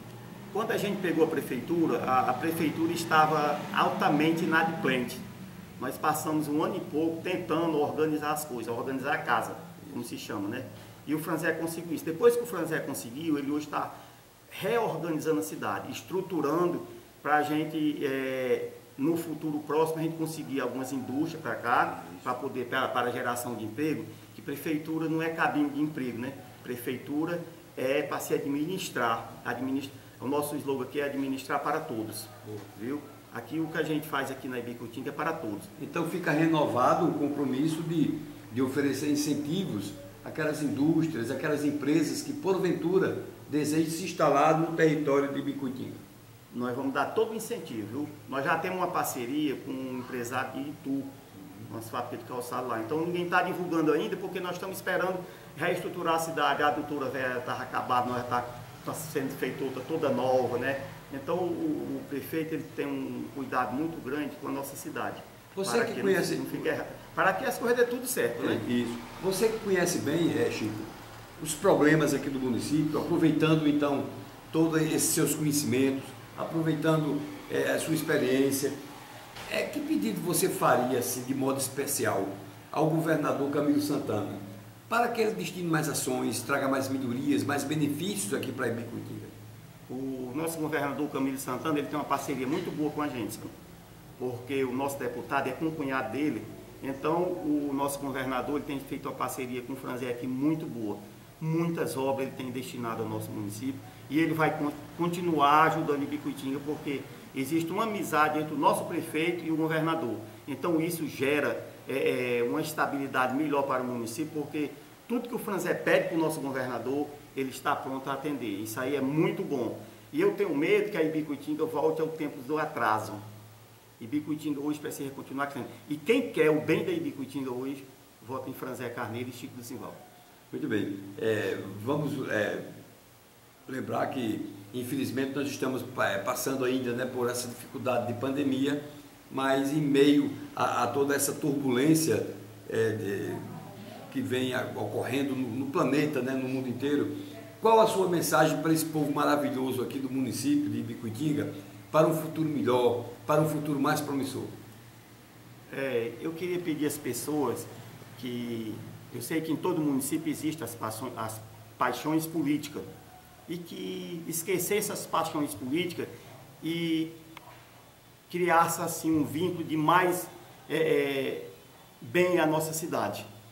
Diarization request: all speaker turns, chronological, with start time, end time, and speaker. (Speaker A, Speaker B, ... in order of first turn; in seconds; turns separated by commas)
Speaker A: 0.5-5.2, Speaker A: 5.8-13.9, Speaker A: 14.5-35.7, Speaker B: 35.8-46.0, Speaker A: 46.5-51.1, Speaker A: 51.7-68.6, Speaker B: 65.5-66.5, Speaker B: 68.4-78.8, Speaker B: 79.5-89.3, Speaker A: 89.9-93.5, Speaker A: 94.2-123.2, Speaker A: 124.0-130.0, Speaker B: 130.5-132.6, Speaker B: 133.7-143.5, Speaker B: 144.1-154.5, Speaker A: 155.7-162.9, Speaker A: 163.5-166.1, Speaker A: 166.6-167.1, Speaker A: 168.3-171.5, Speaker A: 172.0-173.3